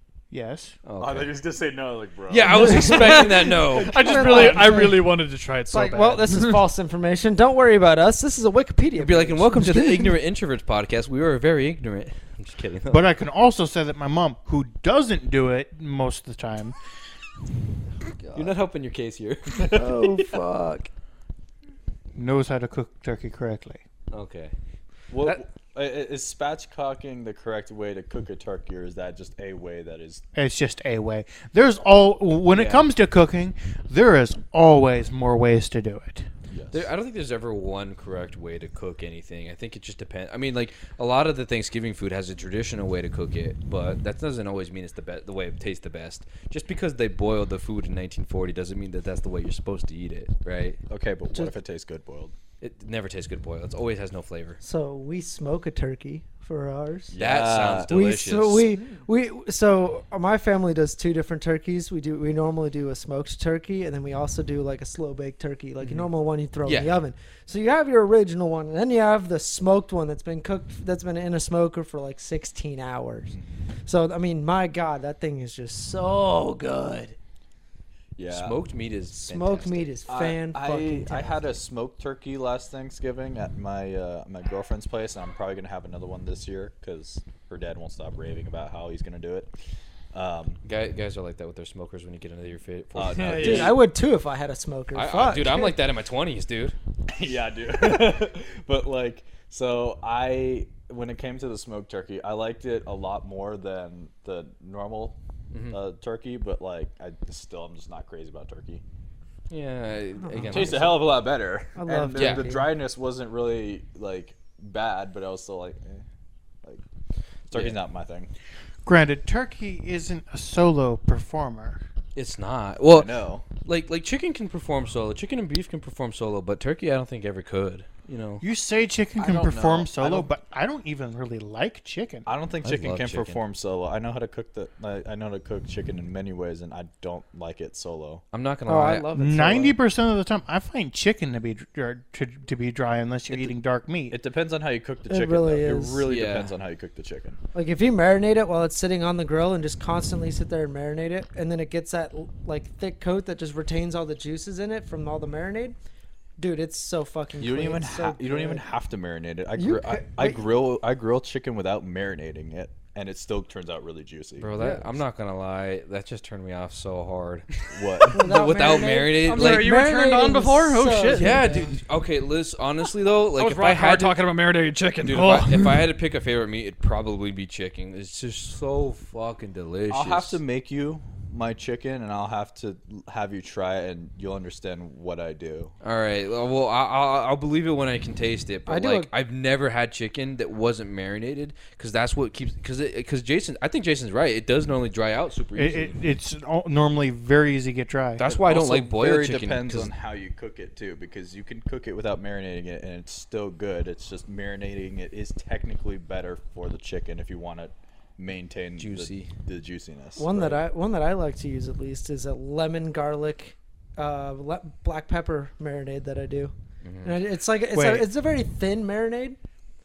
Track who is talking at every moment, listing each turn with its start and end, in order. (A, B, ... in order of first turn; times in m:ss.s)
0:00.3-0:00.8 A
0:00.8-0:01.3 B
0:01.0-0:04.9 C
0:02.3-0:04.4 B
0:02.6-0:03.3 D
0:03.9-0:06.6 E
0:03.9-0:05.1 D
0:05.7-0:10.1 D
0:09.0-0:13.1 B
0:12.9-0:16.7 A
0:18.3-0:20.0 B
0:19.6-0:20.9 D
0:22.1-0:23.8 A
0:24.1-0:24.5 B
0:25.1-0:30.2 C
0:30.3-0:36.3 A
0:32.5-0:32.8 B
0:36.5-0:36.9 C
0:36.7-0:50.8 B
0:50.9-0:52.3 C
0:52.6-0:54.6 B
0:54.6-0:57.2 D
0:57.1-0:57.9 C
0:57.2-0:58.7 B
0:57.7-1:17.2 D
1:06.6-1:07.0 B
1:18.2-1:18.6 C
1:18.3-1:19.9 B
1:19.1-1:21.5 D
1:20.1-1:29.5 C
1:30.1-1:30.6 C
1:30.6-1:33.6 B
1:32.9-1:33.8 C
1:33.1-1:33.7 E
1:33.4-1:35.8 D
1:34.9-1:36.7 B
1:37.1-1:45.2 C
1:45.5-1:45.8 B
1:45.7-1:48.8 C
1:49.5-1:50.9 B
1:50.2-1:51.0 D
1:50.4-1:56.0 C
1:51.7-1:52.7 D
1:52.2-1:52.4 B
1:57.5-1:58.3 C
1:57.5-1:57.8 B
1:58.8-2:01.8 A
2:02.2-2:08.4 B
2:02.9-2:03.5 C
2:08.4-2:12.2 A
2:09.2-2:10.3 C
2:12.2-2:18.2 C
2:12.6-2:13.4 B
2:18.3-2:19.2 B
2:18.6-2:19.8 D
2:19.1-2:24.2 A
2:24.1-2:27.4 C
2:25.1-2:26.0 D
2:26.1-2:26.5 B
2:27.5-2:35.8 D
2:36.4-2:38.6 D
2:37.4-2:44.6 C
2:39.6-2:40.4 D
2:44.4-2:49.7 B
2:47.7-2:48.8 C
2:48.1-2:51.7 D
2:49.3-2:51.5 E
2:51.1-2:54.2 B
2:53.4-2:55.8 E
2:55.0-3:00.4 B
2:59.9-3:05.7 C
3:05.8-3:15.9 B
3:08.7-3:09.1 D
3:15.6-3:18.2 A
3:18.2-3:19.9 B
3:18.2-3:30.6 C
3:28.8-3:29.3 B
3:30.2-3:39.4 D
3:36.8-3:37.1 B
3:37.7-3:38.1 A